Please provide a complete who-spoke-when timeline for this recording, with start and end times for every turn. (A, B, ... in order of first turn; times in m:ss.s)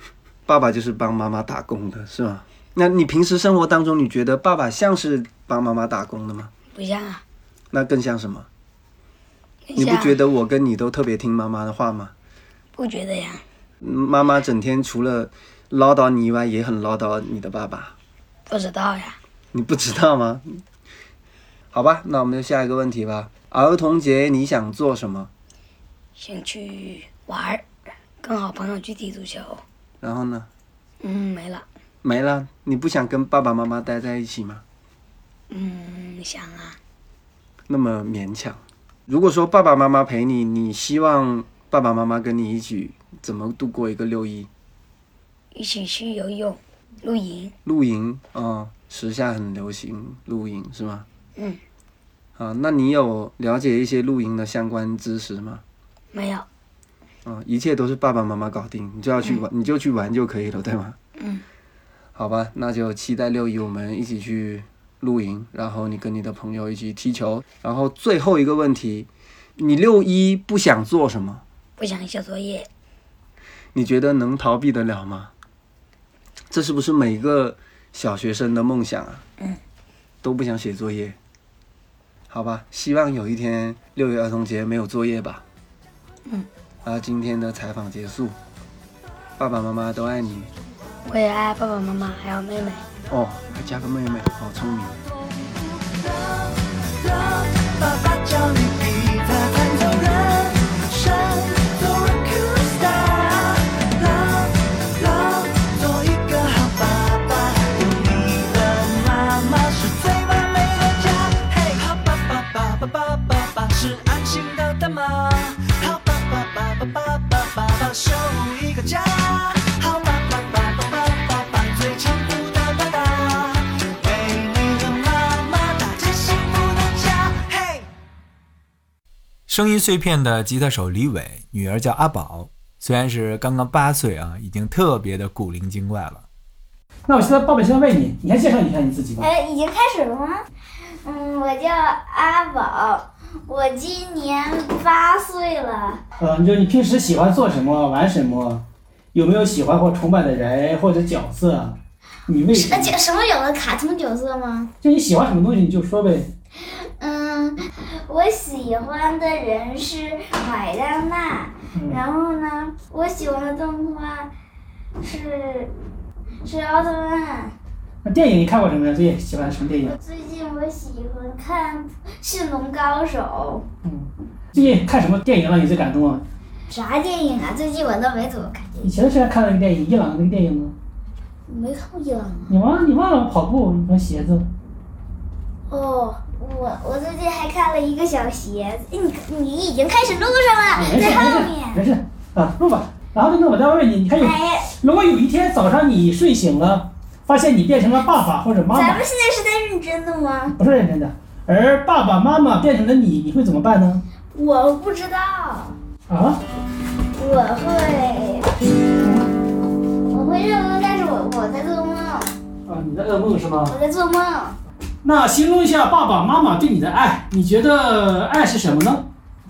0:00.5-0:06.5 A
0:06.7-0:07.2 B
0:07.7-0:08.5 A
0:09.7-0:10.1 B
0:09.8-0:12.1 A
0:12.8-0:13.4 B
0:13.8-0:17.9 A
0:18.5-0:19.2 B
0:19.5-0:20.6 A
0:21.7-0:25.3 A
0:26.2-0:27.6 B
0:28.2-0:29.6 B
0:30.0-0:30.5 A
0:31.0-0:31.6 B
0:32.0-0:34.6 A
0:35.5-0:36.8 B
0:37.7-0:44.5 A
0:45.5-0:47.5 B
0:47.6-0:51.1 A
0:52.4-0:55.6 A
0:56.1-0:56.5 B
0:57.2-1:01.0 A
1:01.2-1:01.4 B
1:02.1-1:11.4 A
1:11.8-1:12.7 B
1:13.7-1:15.3 A
1:16.5-1:19.2 A
1:20.2-1:21.2 A
1:22.3-1:25.4 A
1:26.8-1:28.4 A
1:29.4-1:30.5 A
1:31.0-1:32.8 B
1:33.1-1:35.0 A
1:35.4-2:07.9 C
2:09.5-2:16.2 D
2:17.1-2:19.2 E
2:19.2-2:20.4 F
2:21.0-2:26.0 F
2:26.2-2:33.0 E
2:32.5-2:34.7 F
2:34.8-2:36.3 E
2:36.7-2:44.3 F
2:41.7-2:42.0 E
2:45.0-2:45.7 F
2:46.4-2:47.5 F
2:48.0-2:49.9 E
2:49.8-2:53.6 F
2:53.8-2:56.2 E
2:56.7-2:59.0 F
2:58.8-3:00.7 E
3:01.5-3:02.6 F
3:02.5-3:04.5 E
3:05.7-3:11.9 F
3:10.8-3:19.0 E
3:14.2-3:14.7 F
3:18.7-3:20.6 F
3:20.6-3:24.0 E
3:24.3-3:25.8 F
3:26.1-3:26.4 E
3:27.2-3:28.5 F
3:29.0-3:29.3 E
3:30.1-3:32.3 F
3:32.6-3:33.7 E
3:33.6-3:34.6 F
3:35.0-3:39.1 E